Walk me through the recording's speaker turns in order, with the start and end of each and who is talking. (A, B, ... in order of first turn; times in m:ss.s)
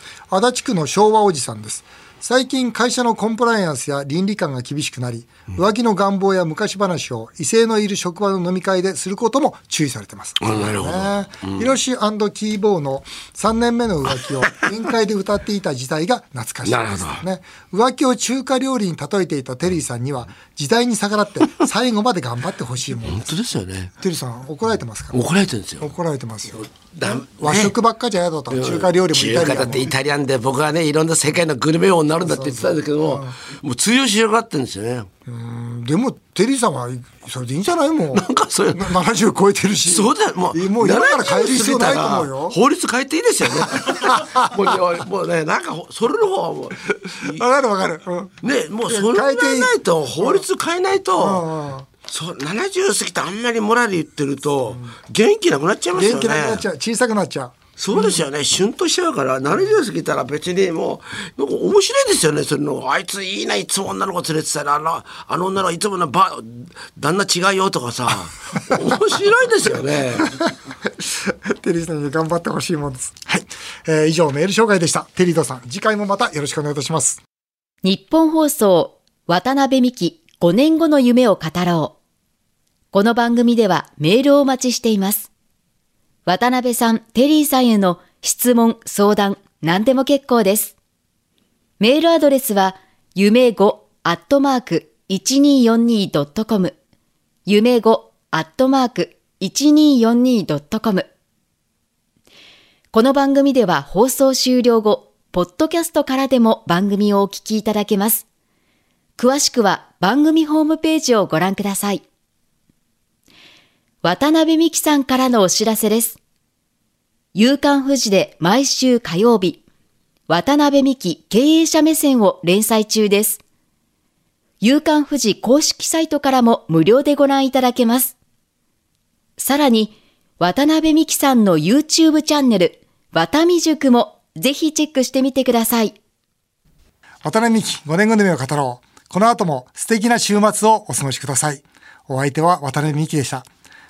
0:00.3-0:23.3 A
0:10.4-0:11.7 B
0:16.6-0:17.2 B
0:23.0-0:23.9 B
0:24.0-0:25.2 A
0:25.1-0:25.9 B
0:25.8-0:29.9 A
0:26.5-0:27.8 B
0:28.5-0:35.1 B
0:32.2-0:33.4 A
0:35.3-0:42.6 A
0:38.1-0:39.0 B
0:39.9-0:47.4 B
0:43.6-0:44.7 A
0:47.1-0:48.3 A
0:48.4-0:51.4 B
0:48.9-0:50.4 A
0:51.2-0:51.9 A
0:52.1-0:56.6 B
0:55.9-0:58.2 A
0:57.8-1:10.3 B
1:11.0-1:17.2 A
1:17.8-1:22.0 C
1:22.9-1:25.3 C
1:26.2-1:30.7 C
1:31.8-1:36.7 C
1:37.4-1:41.0 C
1:42.9-1:48.2 C
1:49.2-1:52.0 C
1:54.0-1:56.2 C
1:57.3-1:59.6 C
2:00.3-2:03.4 C
2:04.6-2:08.1 C
2:09.4-2:16.0 C
2:17.2-2:23.4 A